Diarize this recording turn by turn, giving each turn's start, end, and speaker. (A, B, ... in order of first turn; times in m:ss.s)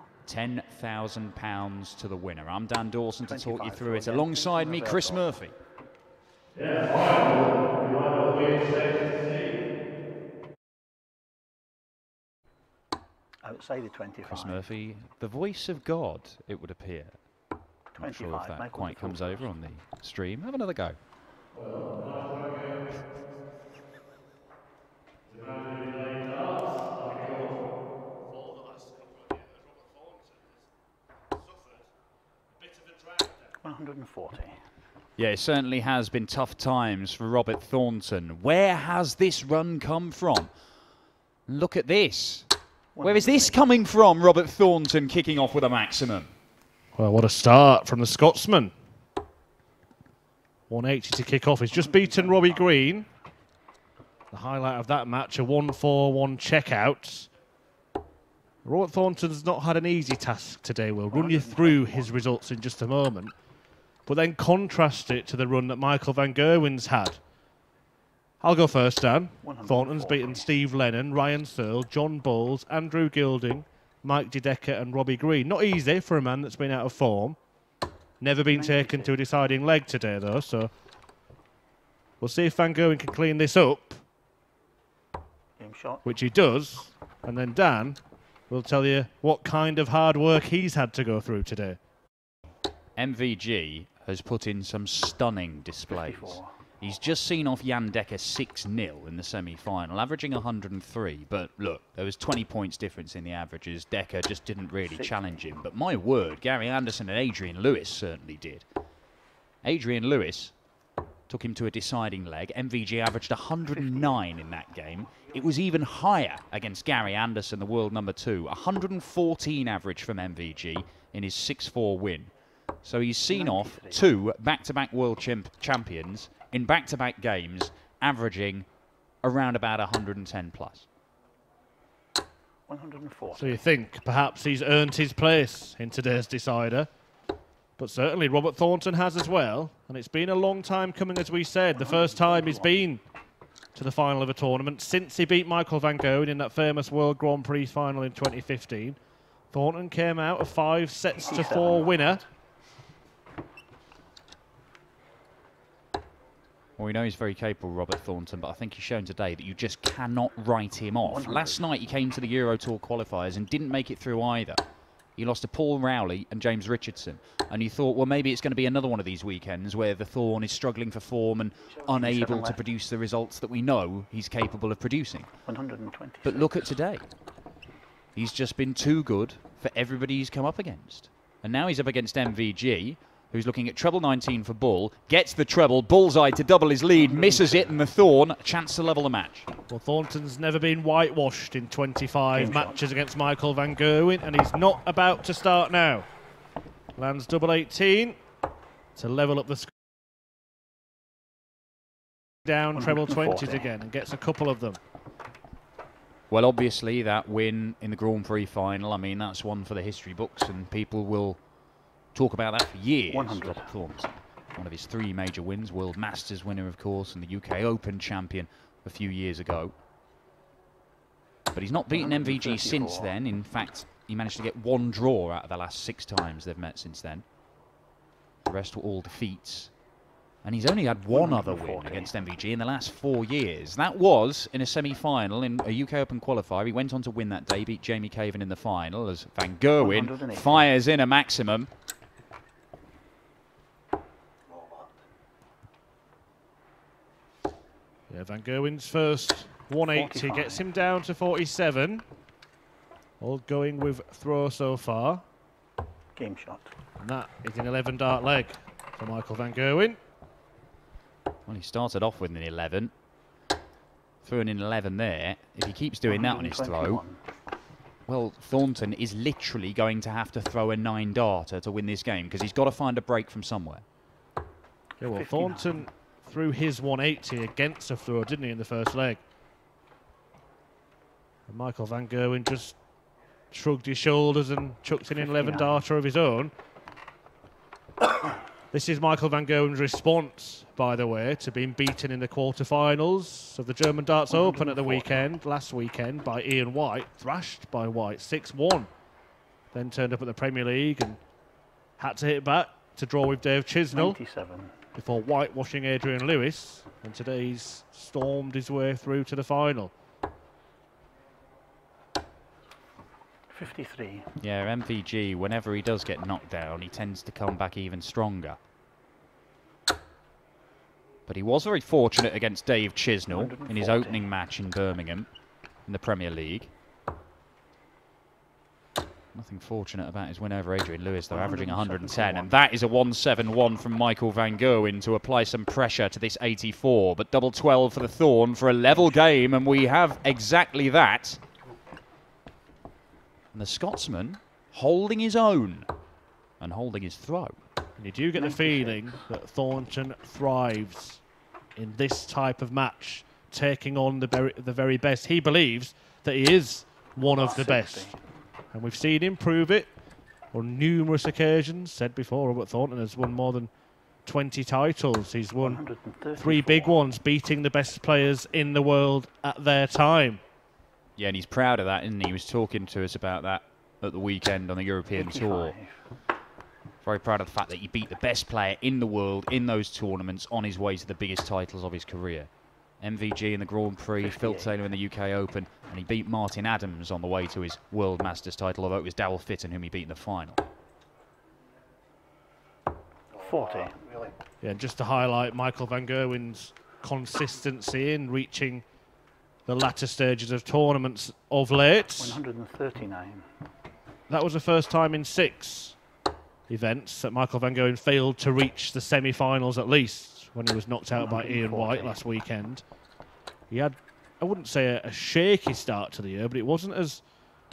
0:00.2-0:05.5 A
0:03.2-0:05.3 B
0:06.5-0:09.6 C
0:13.4-0:14.6 B
0:14.2-0:17.2 A
0:18.0-0:19.5 B
0:18.0-0:21.0 A
0:21.5-0:22.8 C
0:25.3-0:27.7 C
0:28.3-0:30.4 C
0:32.6-0:33.3 C
0:33.6-0:34.6 B
0:35.2-0:40.5 A
0:41.5-0:42.5 A
0:43.0-0:43.6 B
0:43.0-0:46.3 A
0:47.0-0:48.7 C
0:50.7-0:53.0 C
0:51.8-0:52.7 B
0:54.3-0:57.3 C
0:58.6-1:03.3 C
1:01.1-1:02.1 B
1:04.1-1:07.2 C
1:08.4-1:17.4 C
1:09.4-1:10.5 B
1:18.2-1:20.7 C
1:18.5-1:19.1 B
1:22.2-1:24.0 C
1:25.6-1:26.0 B
1:26.1-1:28.0 C
1:28.5-1:31.8 C
1:33.0-1:48.6 A
1:35.9-1:36.5 B
1:44.8-1:45.3 B
1:49.6-1:50.5 A
1:51.3-2:02.3 A
1:53.7-1:54.2 B
2:02.8-2:08.7 A
2:03.3-2:04.1 B
2:09.2-2:10.9 A
2:12.7-2:13.6 B
2:13.4-2:16.9 C
2:17.8-2:23.0 C
2:21.8-2:22.8 B
2:23.8-2:29.0 C
2:29.5-2:32.2 C
2:31.2-2:32.2 B
2:36.8-2:44.6 A
2:41.0-2:41.6 B
2:45.2-2:55.3 A
2:51.8-2:52.6 B
2:55.5-2:56.6 B
2:56.2-2:57.0 A
2:58.2-3:09.5 A
3:06.9-3:07.8 B
3:09.7-3:16.1 C
3:12.3-3:12.8 B
3:17.0-3:18.2 C
3:19.0-3:19.7 C
3:22.5-3:24.8 C
3:22.8-3:23.7 B
3:26.3-3:31.4 A
3:32.1-3:39.7 A
3:33.1-3:33.7 B
3:41.5-3:47.2 A
3:41.9-3:43.2 B
3:48.5-3:49.7 A
3:50.4-4:01.7 A
3:51.1-3:52.2 B
3:59.8-4:00.7 B
4:08.1-4:12.0 C
4:09.9-4:10.6 B
4:13.2-4:15.2 C
4:16.2-4:16.7 B
4:17.0-4:20.0 C
4:21.4-4:22.9 A
4:24.2-4:27.0 A
4:26.0-4:27.2 B
4:28.1-4:33.8 A
4:35.0-4:35.8 B
4:35.0-4:39.2 C
4:41.5-4:42.8 C
4:43.5-4:46.5 C
4:45.1-4:45.8 B
4:48.7-4:58.9 C
4:54.3-4:55.1 B
4:59.7-5:01.2 C
5:02.0-5:04.2 C
5:03.9-5:04.8 B
5:05.0-5:09.9 C
5:13.5-5:14.3 B
5:14.4-5:18.6 A
5:21.3-5:25.3 A
5:23.3-5:24.2 B
5:25.9-5:26.7 A
5:29.3-5:41.4 A
5:31.3-5:32.5 B
5:43.5-5:45.9 A
5:46.6-5:47.5 A
5:48.0-5:51.2 C
5:48.4-5:49.2 B
5:51.8-5:58.1 C
5:57.2-5:58.2 B
5:58.7-5:59.9 C
6:00.5-6:03.7 C
6:04.2-6:05.8 C
6:05.6-6:06.9 B
6:06.4-6:10.4 C
6:11.2-6:15.8 A
6:15.2-6:15.9 B
6:17.0-6:22.5 A
6:23.0-6:30.6 A
6:24.2-6:24.8 B
6:33.3-6:34.0 B
6:34.6-6:38.8 C
6:39.6-6:42.4 C
6:42.2-6:43.4 B
6:44.3-6:46.0 C
6:46.7-6:52.8 C
6:51.1-6:52.2 B
6:53.7-6:57.2 C